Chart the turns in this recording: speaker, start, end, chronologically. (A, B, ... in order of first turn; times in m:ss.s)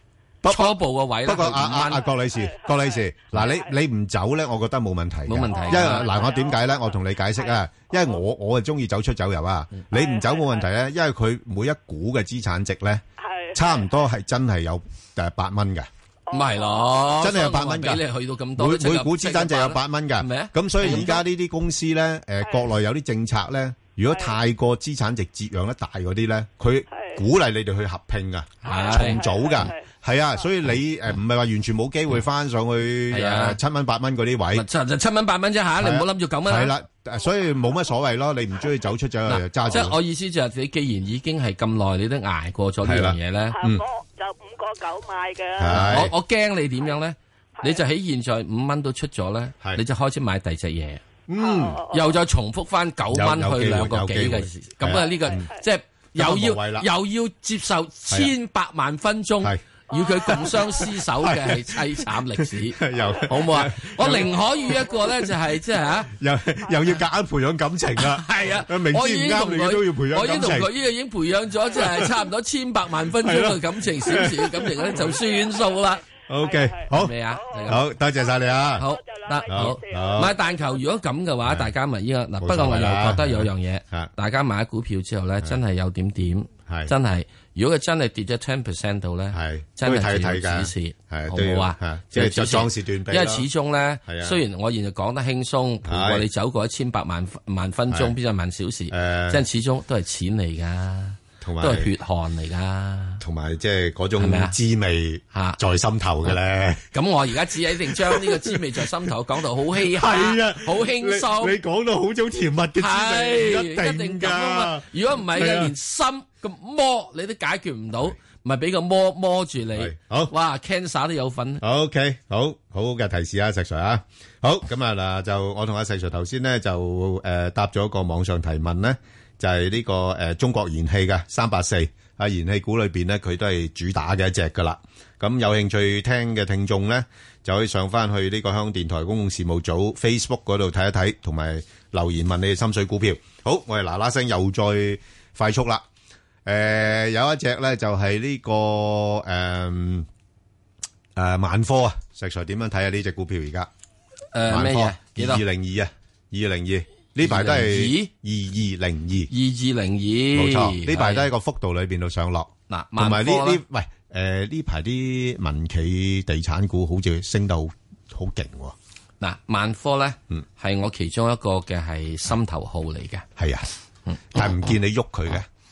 0:00.4-0:13.0 A
0:00.5-0:02.0 B
0:02.2-0:03.7 C
0:05.3-0:06.1 B
0:05.5-0:08.2 C
0:09.9-0:10.6 C
0:13.2-0:13.9 C
0:13.5-0:15.9 A
0:16.3-0:17.0 C
0:16.3-0:21.2 B
0:17.2-0:18.0 A
0:18.6-0:34.6 A
0:22.4-0:22.7 C
0:24.1-0:24.4 C
0:26.9-0:27.2 C
0:28.6-0:29.7 B
0:28.7-0:29.8 C
0:33.1-0:33.6 B
0:34.5-0:36.7 B
0:35.8-0:40.0 A
0:39.3-0:43.6 B
0:42.8-0:43.8 A
0:43.5-0:45.9 C
0:45.6-0:46.1 A
0:45.7-0:51.0 B
0:51.3-0:51.8 A
0:51.4-0:52.1 C
0:51.9-1:06.1 B
0:53.1-0:55.5 A
0:56.1-0:56.9 A
0:59.9-1:00.8 C
1:01.2-1:05.3 A
1:06.0-1:10.7 A
1:08.0-1:16.0 B
1:11.8-1:12.1 A
1:13.2-1:15.1 A
1:14.8-1:17.7 C
1:16.3-1:18.9 A
1:16.9-1:17.8 B
1:18.2-1:20.8 C
1:18.8-1:43.2 B
1:19.5-1:20.4 A
1:21.4-1:21.7 A
1:22.4-1:24.1 A
1:26.7-1:26.9 A
1:29.3-1:33.4 A
1:34.0-1:34.4 A
1:35.8-1:36.2 A
1:38.9-1:39.4 A
1:41.4-1:41.9 A
1:43.2-1:46.8 A
1:44.2-1:44.5 B
1:45.3-1:45.6 B
1:46.9-1:51.6 B
1:48.0-1:48.6 A
1:49.8-1:55.7 A
1:52.8-2:01.6 B
1:59.7-2:00.3 A
2:01.6-2:25.8 A
2:26.4-2:30.1 A
2:31.2-2:33.7 A
2:34.3-2:35.4 B
2:34.5-2:39.3 A
2:37.2-2:38.1 B
2:39.3-2:41.3 B
2:40.3-2:48.7 A
2:42.7-2:43.6 B
2:49.2-2:53.2 B
2:53.4-2:53.7 A
2:54.3-2:55.5 A